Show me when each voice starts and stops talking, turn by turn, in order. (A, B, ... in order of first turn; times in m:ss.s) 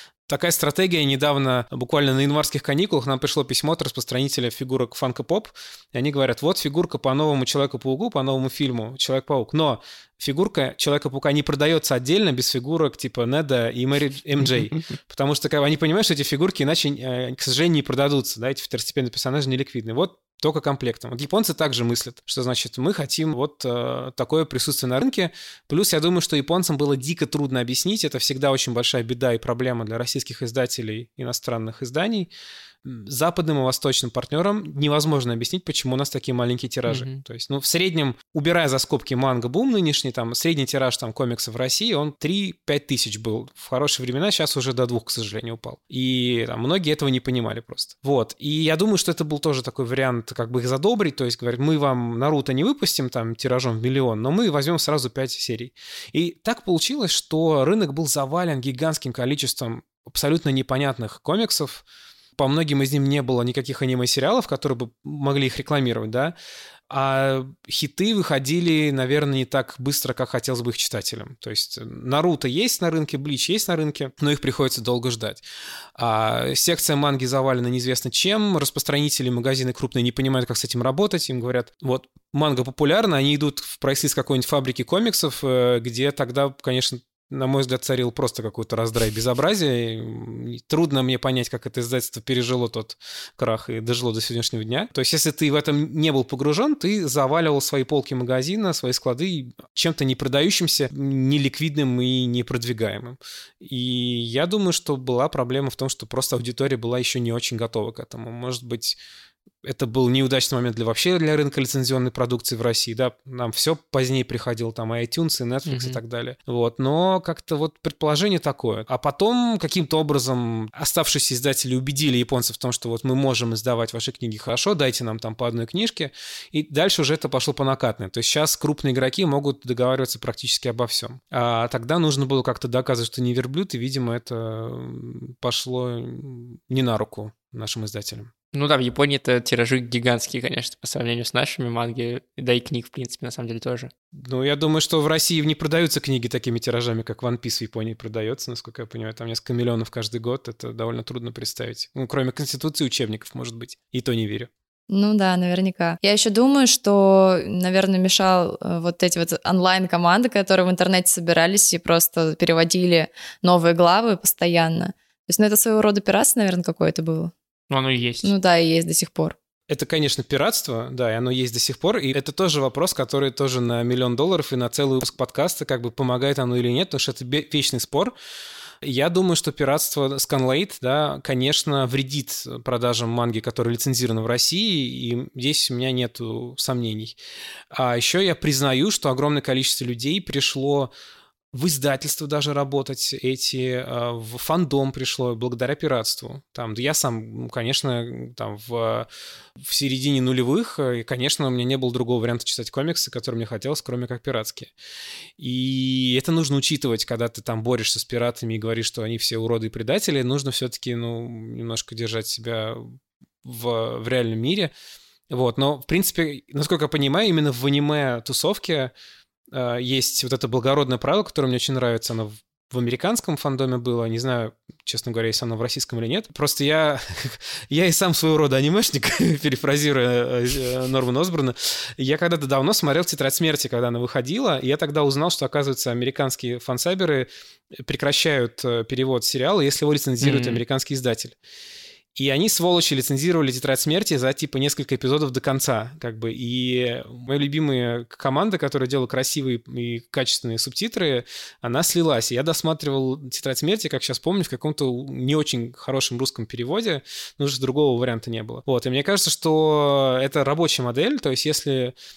0:00.3-0:32.3 A
0:32.8-1:01.8 A
0:36.9-0:37.2 B
1:02.4-1:06.3 A
1:06.9-1:15.4 A
1:16.0-1:49.0 A
1:49.6-2:18.3 A
1:55.7-1:56.0 B
2:18.5-2:23.9 B
2:24.1-2:34.5 A
2:34.9-2:47.3 C
2:47.7-2:48.3 B
2:48.2-2:49.4 C
2:49.7-2:58.2 A
2:58.8-3:07.2 A
3:07.7-3:10.9 A
3:11.5-3:24.7 A
3:25.4-3:34.7 A
3:35.3-3:38.9 A
3:39.5-4:01.3 A
4:00.2-4:00.6 B
4:02.2-4:22.0 A